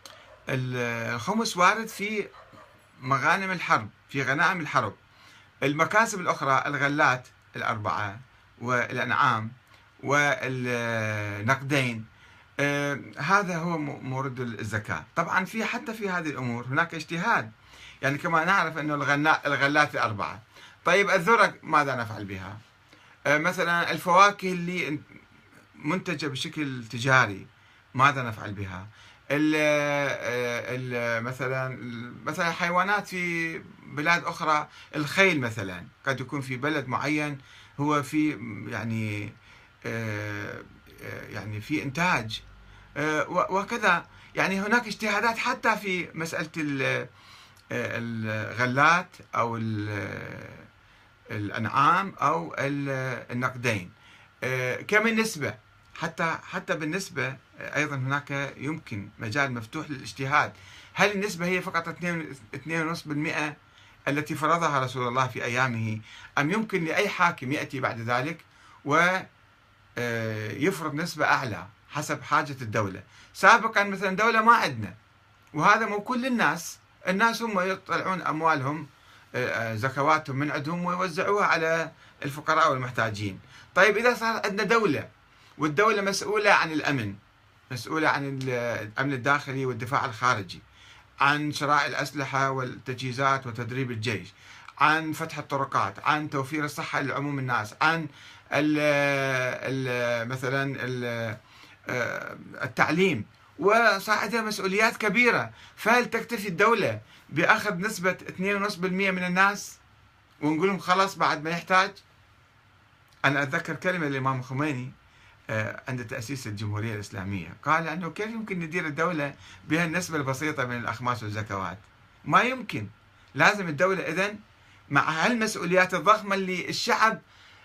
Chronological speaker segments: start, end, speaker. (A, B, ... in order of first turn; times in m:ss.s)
0:00.5-0:02.3 A
0:03.0-0:05.0 A
0:05.6-0:12.0 A
0:12.6-0:17.5 A
0:18.0-0:22.6 A
0:23.3-0:25.0 A
0:25.8-0:39.3 A
0:39.8-0:42.4 A
0:43.0-0:47.1 A
0:47.7-0:50.7 A
0:51.3-0:53.9 A
0:54.4-1:03.6 A
1:04.1-1:09.3 A
1:10.0-1:15.0 A
1:15.6-1:25.1 A
1:25.6-1:27.2 A
1:27.7-1:30.6 A
1:31.2-1:49.8 A
1:50.4-1:52.0 A
1:53.2-1:54.9 A
1:55.5-2:04.4 A
2:04.9-2:07.2 A